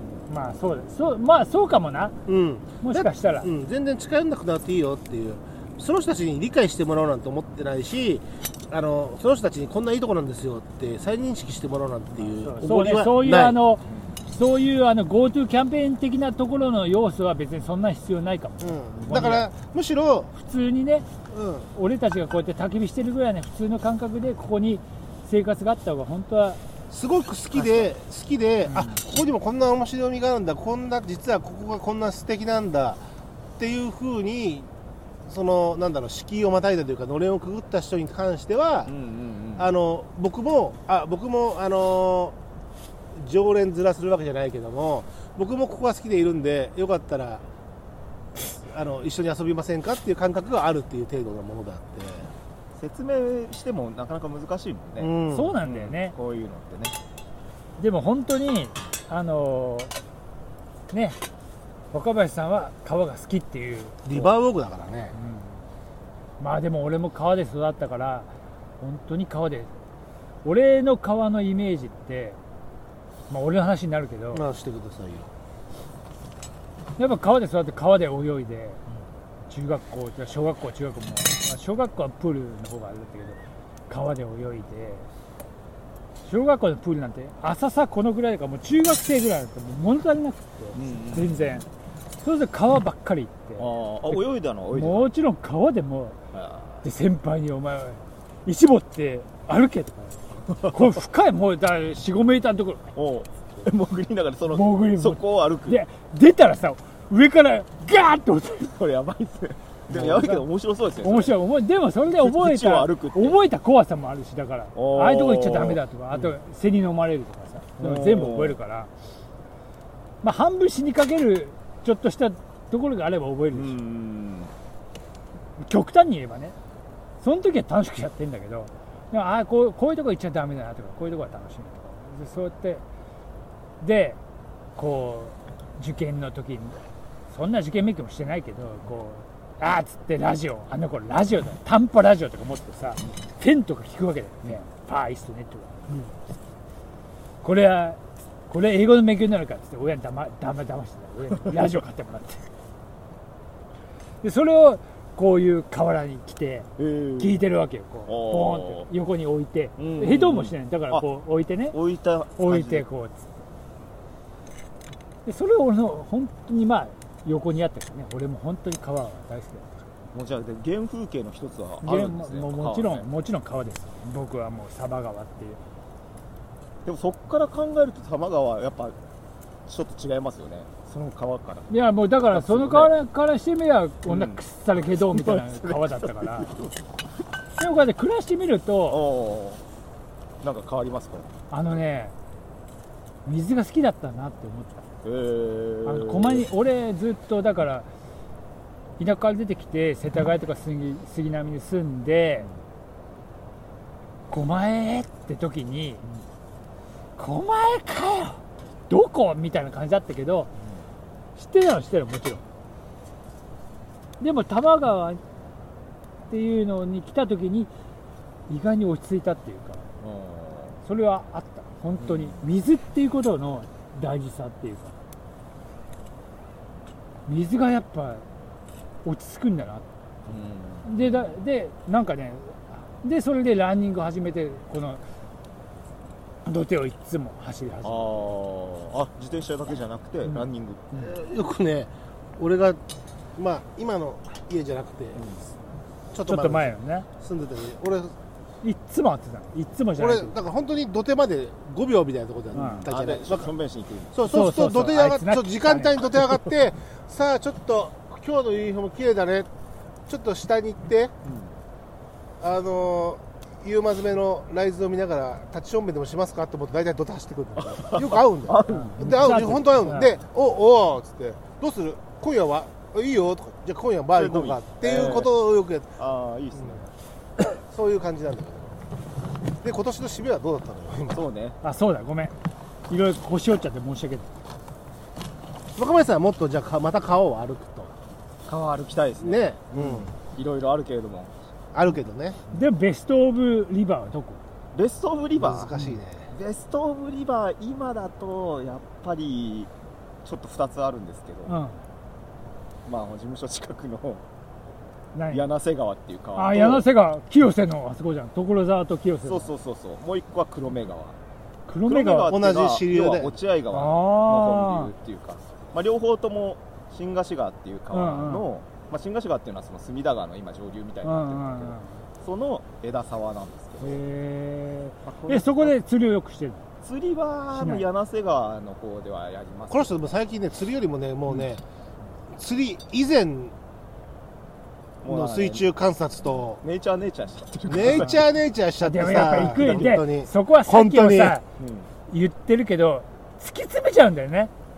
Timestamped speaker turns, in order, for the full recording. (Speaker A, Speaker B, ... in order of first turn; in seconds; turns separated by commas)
Speaker A: 0.3-2.2, Speaker B: 2.2-13.6, Speaker A: 2.8-3.5, Speaker A: 12.4-19.5, Speaker C: 13.9-14.2, Speaker B: 18.6-20.3, Speaker A: 20.3-21.1, Speaker B: 21.3-21.7, Speaker A: 21.7-26.6, Speaker B: 26.9-33.0, Speaker A: 28.7-29.0, Speaker B: 33.6-34.7, Speaker B: 35.3-38.9, Speaker C: 38.9-39.7, Speaker B: 39.6-42.4, Speaker B: 43.1-47.4, Speaker B: 48.4-52.3, Speaker C: 52.8-57.0, Speaker B: 55.0-55.5, Speaker A: 55.3-56.1, Speaker A: 57.8-59.9, Speaker A: 60.9-61.2, Speaker A: 61.9-64.0, Speaker B: 64.0-65.2, Speaker A: 65.1-65.6, Speaker A: 66.4-68.3, Speaker A: 68.8-69.7, Speaker A: 70.4-72.4, Speaker A: 73.3-74.4, Speaker B: 74.3-75.3, Speaker A: 77.0-78.8, Speaker A: 79.5-85.1, Speaker A: 86.2-91.7, Speaker C: 90.7-91.6, Speaker A: 92.2-96.2, Speaker C: 93.6-95.1, Speaker C: 96.3-96.8, Speaker A: 96.8-102.9, Speaker C: 100.5-101.0, Speaker C: 103.0-105.8, Speaker A: 104.5-108.8, Speaker C: 108.7-111.4, Speaker A: 109.9-110.5, Speaker A: 111.0-118.9, Speaker C: 112.1-113.4, Speaker C: 114.8-116.3, Speaker C: 117.8-118.6, Speaker A: 120.2-123.8, Speaker C: 123.5-124.5, Speaker A: 125.6-126.6, Speaker A: 127.2-132.8, Speaker A: 133.8-134.2, Speaker A: 134.8-146.1, Speaker A: 147.4-152.5, Speaker C: 151.5-151.8, Speaker A: 154.2-161.8, Speaker C: 156.8-157.4, Speaker C: 158.1-158.9, Speaker C: 159.8-161.1, Speaker C: 161.7-162.9, Speaker A: 162.4-163.3, Speaker A: 165.2-169.7, Speaker C: 170.1-173.1, Speaker A: 171.8-175.6, Speaker C: 176.8-179.0, Speaker C: 179.7-183.0, Speaker A: 181.7-186.6, Speaker C: 184.1-186.8, Speaker A: 187.6-189.0, Speaker C: 188.9-189.6, Speaker C: 190.4-191.3, Speaker A: 191.5-192.2, Speaker A: 193.2-194.8, Speaker C: 195.0-196.5, Speaker A: 195.8-197.9, Speaker A: 199.0-202.5, Speaker A: 204.3-206.0, Speaker A: 207.2-210.5, Speaker A: 211.4-212.4, Speaker A: 214.2-215.2, Speaker A: 216.3-217.7, Speaker A: 218.5-219.9, Speaker C: 220.0-220.8, Speaker A: 220.8-225.0, Speaker C: 222.0-222.5, Speaker A: 227.2-228.2, Speaker A: 229.0-229.9, Speaker C: 230.2-231.4, Speaker A: 230.8-235.0, Speaker A: 236.4-238.3, Speaker C: 237.8-241.1, Speaker B: 241.0-242.8, Speaker B: 243.4-245.3, Speaker C: 245.2-245.5, Speaker B: 246.1-248.2, Speaker A: 246.3-247.1, Speaker A: 248.6-250.4, Speaker B: 250.0-253.5, Speaker C: 252.5-254.2, Speaker A: 252.5-252.9, Speaker B: 254.1-259.5, Speaker A: 254.2-256.1, Speaker B: 260.1-261.1, Speaker C: 261.2-261.6, Speaker B: 262.4-276.0, Speaker C: 267.6-269.6, Speaker A: 268.7-270.2, Speaker C: 274.1-275.4, Speaker C: 276.0-276.9, Speaker B: 276.6-276.8, Speaker B: 277.5-278.8, Speaker B: 279.6-281.2, Speaker C: 281.1-281.6, Speaker A: 281.6-282.4, Speaker A: 282.9-284.3, Speaker B: 285.8-287.9, Speaker C: 288.5-291.3, Speaker B: 289.2-290.1, Speaker B: 291.7-292.4, Speaker A: 292.5-294.4, Speaker C: 294.7-295.8, Speaker B: 295.4-296.3, Speaker C: 296.3-299.7, Speaker C: 300.2-301.6, Speaker A: 301.5-301.8, Speaker C: 302.9-304.2, Speaker A: 305.1-305.5, Speaker C: 305.3-306.9, Speaker A: 306.3-309.5, Speaker C: 309.2-311.2, Speaker A: 311.7-312.3, Speaker C: 311.8-324.0, Speaker B: 312.3-313.4, Speaker A: 313.7-314.9, Speaker A: 317.9-318.5, Speaker A: 321.0-322.0, Speaker A: 323.8-326.6, Speaker C: 325.1-325.8, Speaker C: 326.8-330.2, Speaker A: 327.6-327.9, Speaker B: 329.7-331.6, Speaker B: 332.4-333.5, Speaker C: 335.0-335.7, Speaker B: 335.1-336.6, Speaker C: 336.6-338.3, Speaker B: 337.7-341.4, Speaker A: 337.8-338.2, Speaker A: 338.8-341.4, Speaker C: 339.0-340.0, Speaker C: 341.6-341.9, Speaker A: 342.1-344.5